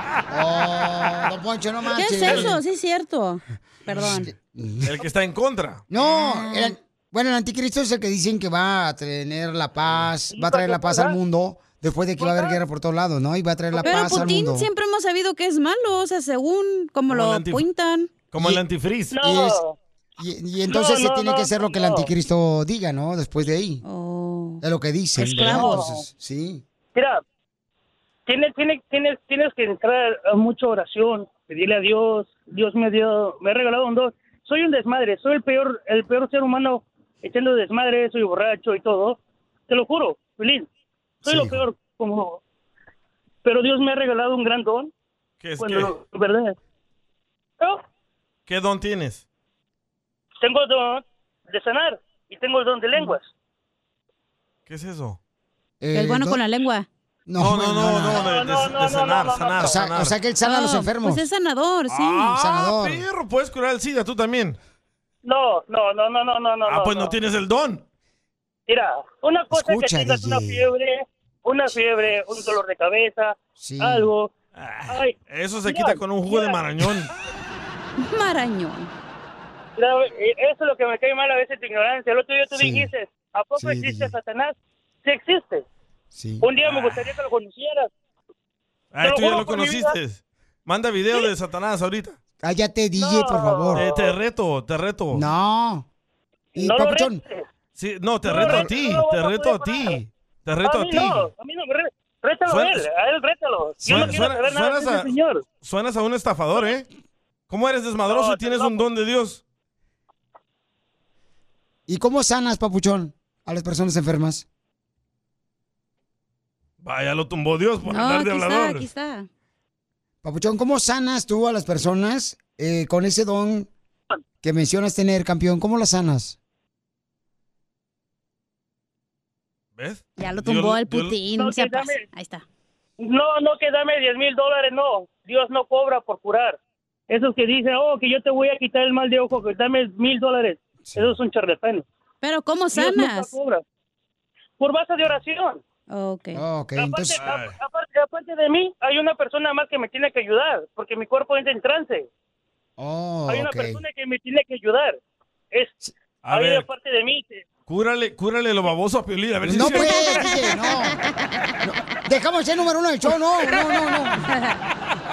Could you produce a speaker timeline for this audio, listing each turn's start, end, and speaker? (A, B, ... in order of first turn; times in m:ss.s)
0:00.3-0:02.6 A
0:01.9-0:04.3 B
0:02.2-0:02.5 C
0:04.0-0:04.9 A
0:04.8-0:05.8 C
0:05.9-0:14.7 A
0:06.1-0:06.8 B
0:10.3-0:11.2 D
0:12.2-0:12.6 D
0:13.8-0:18.1 B
0:17.1-0:17.6 C
0:18.3-0:19.2 C
0:19.1-0:19.8 D
0:19.2-0:19.6 A
0:20.2-0:23.8 A
0:20.7-0:22.1 D
0:23.8-0:24.6 B
0:24.6-0:26.6 A
0:25.2-0:25.9 B
0:25.5-0:26.0 D
0:27.0-0:27.2 D
0:28.3-0:40.7 D
0:41.2-0:41.6 A
0:41.2-0:42.4 D
0:43.4-0:44.9 D
0:45.4-0:46.0 C
0:45.6-0:46.6 D
0:48.5-0:49.2 C
0:50.4-0:53.3 D
0:54.7-0:55.2 C
0:55.8-0:56.4 A
0:55.9-0:56.9 B
0:57.3-0:58.3 A
0:57.4-1:00.1 C
0:58.1-0:59.8 D
0:59.6-1:01.2 A
1:00.4-1:02.3 B
1:01.9-1:04.6 C
1:02.3-1:03.0 A
1:05.2-1:07.2 D
1:06.7-1:07.8 C
1:08.7-1:14.3 D
1:09.5-1:10.7 A
1:13.6-1:14.1 A
1:14.6-1:17.1 C
1:14.9-1:16.6 D
1:18.0-1:18.9 B
1:19.8-1:25.6 D
1:22.5-1:22.9 A
1:23.6-1:24.2 A
1:26.1-1:26.5 A
1:26.4-1:27.9 D
1:26.6-1:27.1 C
1:28.9-1:32.2 C
1:29.0-1:30.0 D
1:32.4-1:33.9 A
1:33.0-1:34.1 D
1:33.8-1:35.3 C
1:35.1-1:35.9 A
1:36.6-1:37.2 A
1:36.6-1:37.5 D
1:37.8-1:41.3 C
1:38.2-1:40.0 D
1:40.6-1:45.4 D
1:42.5-1:42.9 C
1:43.8-1:44.2 A
1:43.9-1:46.9 C
1:47.5-1:49.4 C
1:48.1-1:48.8 D
1:51.9-1:54.4 A
1:56.8-1:58.9 C
1:57.9-1:59.3 B
2:00.2-2:03.7 A
2:04.4-2:06.4 A
2:09.8-2:11.2 C
2:10.2-2:12.4 B
2:11.3-2:12.0 D
2:13.0-2:16.6 D
2:17.1-2:21.9 D
2:20.9-2:21.1 A
2:22.2-2:23.3 B
2:22.7-2:23.6 D
2:24.6-2:25.6 D
2:25.9-2:26.4 B
2:26.3-2:27.2 A
2:26.8-2:32.1 D
2:27.2-2:27.6 C
2:32.8-2:33.8 A
2:33.3-2:35.0 D
2:36.2-2:36.7 C
2:36.3-2:37.4 D
2:37.7-2:40.3 C
2:39.4-2:41.0 A
2:39.6-2:40.7 B
2:41.6-2:44.2 A